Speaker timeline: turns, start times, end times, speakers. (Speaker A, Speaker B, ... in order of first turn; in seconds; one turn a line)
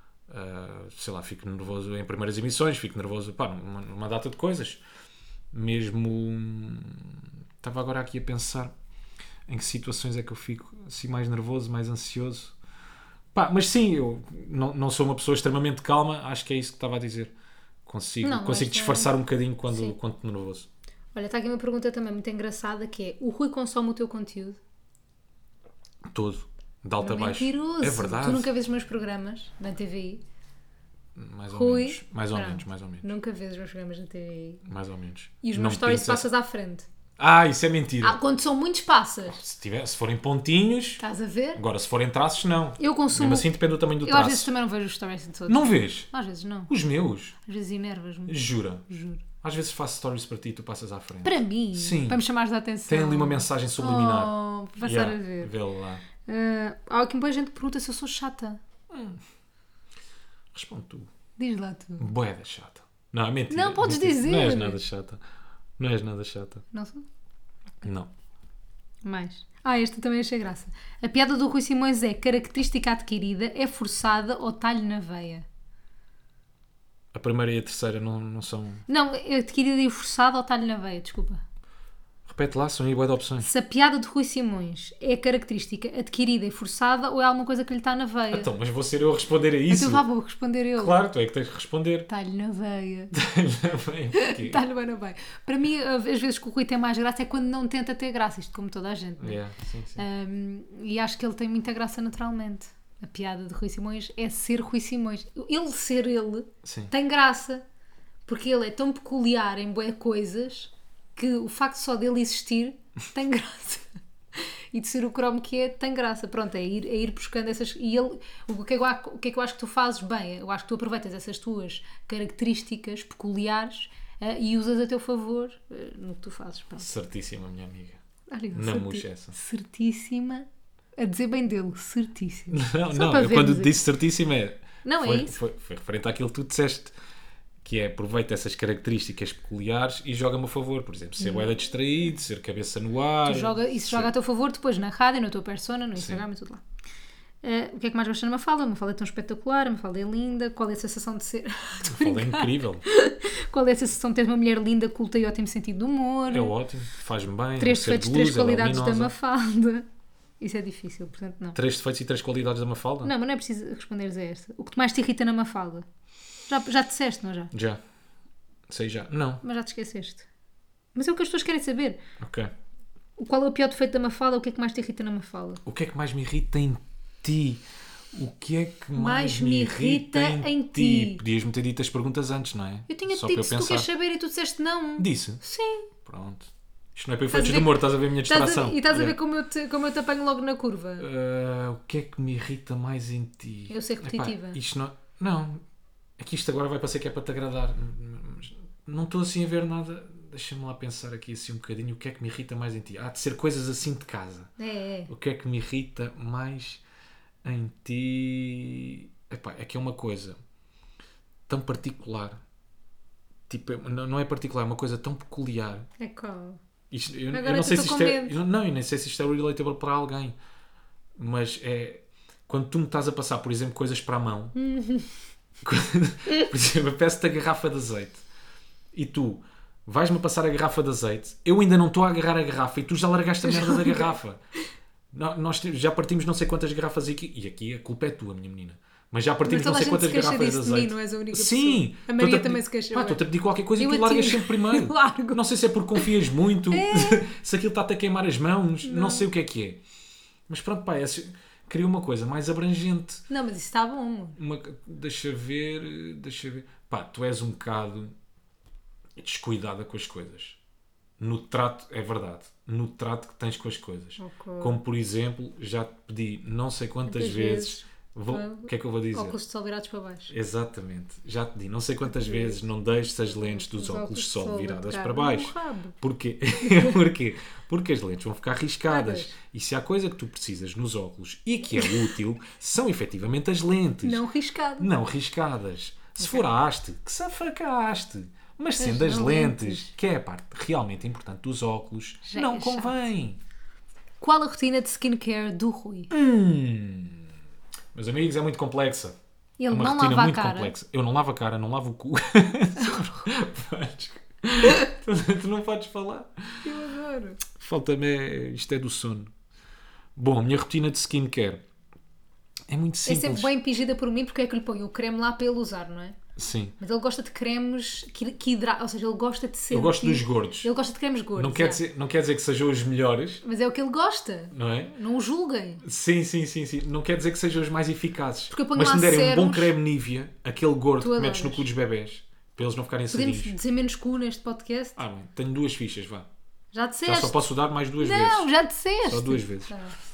Speaker A: 0.3-4.8
Speaker A: 5.5-8.7
Speaker A: 9.5-12.5
Speaker A: 13.3-17.3
Speaker A: 17.9-20.7
Speaker B: 18.2-19.2
Speaker B: 19.7-20.0
Speaker B: 21.1-24.6
Speaker A: 26.1-28.5
Speaker B: 27.0-30.2
Speaker A: 31.1-33.1
Speaker B: 31.5-34.6
Speaker A: 34.6-36.3
Speaker B: 35.4-36.9
Speaker A: 37.2-38.2
Speaker B: 38.0-39.4
Speaker A: 39.3-41.0
Speaker B: 41.0-41.6
Speaker A: 41.5-44.5
Speaker B: 42.8-46.7
Speaker A: 45.5-46.1
Speaker A: 46.7-47.4
Speaker B: 47.4-49.2
Speaker A: 48.3-48.8
Speaker A: 49.4-52.2
Speaker B: 51.2-55.5
Speaker A: 52.9-56.0
Speaker B: 56.2-58.6
Speaker A: 58.9-59.2
Speaker A: 60.5-61.1
Speaker B: 61.4-62.1
Speaker A: 62.0-65.2
Speaker B: 63.5-64.8
Speaker A: 65.8-66.6
Speaker B: 66.7-67.0
Speaker A: 67.8-68.1
Speaker B: 69.0-75.5
Speaker A: 77.1-78.8
Speaker B: 78.9-81.4
Speaker A: 82.3-83.5
Speaker B: 83.4-88.5
Speaker A: 88.3-90.0
Speaker B: 89.7-90.9
Speaker A: 90.8-92.1
Speaker B: 92.1-93.2
Speaker A: 93.1-94.6
Speaker B: 94.2-99.4
Speaker A: 99.2-100.1
Speaker B: 100.0-107.6
Speaker A: 106.6-106.9
Speaker B: 108.3-126.9
Speaker A: 126.8-128.0
Speaker B: 128.3-133.8
Speaker A: 128.5-129.3
Speaker A: 132.5-136.9
Speaker B: 134.8-135.4
Speaker A: 137.6-144.1
Speaker B: 141.2-141.5
Speaker B: 143.2-146.6
Speaker A: 146.0-146.2
Speaker B: 147.4-156.5
Speaker A: 151.8-152.8
Speaker A: 156.3-159.1
Speaker B: 157.6-159.9
Speaker B: 160.4-161.6
Speaker A: 161.6-163.1
Speaker B: 163.0-165.9
Speaker B: 166.5-167.5
Speaker A: 167.5-167.8
Speaker A: 168.7-169.4
Speaker B: 169.4-170.3
Speaker B: 170.9-172.0
Speaker A: 172.2-172.5
Speaker B: 173.2-175.6
Speaker A: 175.7-177.6
Speaker A: 178.1-183.9
Speaker B: 178.9-181.2
Speaker B: 182.9-185.9
Speaker A: 185.0-185.4
Speaker A: 186.0-189.2
Speaker B: 187.3-191.1
Speaker A: 191.0-195.6
Speaker B: 193.7-194.6
Speaker A: 196.2-204.5
Speaker B: 204.6-205.1
Speaker A: 205.1-206.8
Speaker A: 207.4-210.4
Speaker A: 211.5-212.4
Speaker A: 213.5-215.9
Speaker B: 216.0-216.6
Speaker A: 216.9-220.3
Speaker B: 217.3-218.3
Speaker A: 221.2-224.6
Speaker B: 224.6-225.1
Speaker A: 225.6-228.2
Speaker A: 228.9-234.4
Speaker B: 233.4-234.2
Speaker A: 235.1-249.8
Speaker B: 239.4-243.2
Speaker B: 243.8-245.4
Speaker B: 246.7-247.3
Speaker B: 248.8-249.3
Speaker A: 250.5-253.3
Speaker B: 253.3-254.4
Speaker A: 254.4-258.1
Speaker A: 259.2-260.6
Speaker A: 261.2-269.4
Speaker B: 264.2-264.8
Speaker B: 267.1-270.3
Speaker A: 270.3-284.2
Speaker B: 272.1-272.6
Speaker B: 273.3-276.0
Speaker B: 276.6-277.0
Speaker B: 278.9-279.3
Speaker B: 281.8-282.1
Speaker B: 284.0-284.9
Speaker A: 284.8-293.4
Speaker B: 286.2-286.5
Speaker B: 288.8-289.9
Speaker B: 292.3-293.0
Speaker B: 294.2-296.1
Speaker A: 296.1-297.3
Speaker A: 297.9-299.2
Speaker B: 299.6-300.7
Speaker A: 299.7-306.7
Speaker B: 306.6-307.4
Speaker A: 307.5-309.3
Speaker A: 310.1-311.6
Speaker A: 312.7-313.5
Speaker B: 313.1-316.2
Speaker A: 316.4-316.8
Speaker B: 316.8-321.8
Speaker A: 319.7-320.7
Speaker A: 321.4-323.4
Speaker B: 323.4-325.8
Speaker A: 324.5-325.0
Speaker A: 325.8-333.6
Speaker B: 328.5-329.7
Speaker B: 331.0-331.7
Speaker B: 333.1-335.0
Speaker A: 335.0-336.3
Speaker B: 336.7-337.4
Speaker A: 337.1-338.5
Speaker B: 338.0-339.9
Speaker A: 339.0-339.7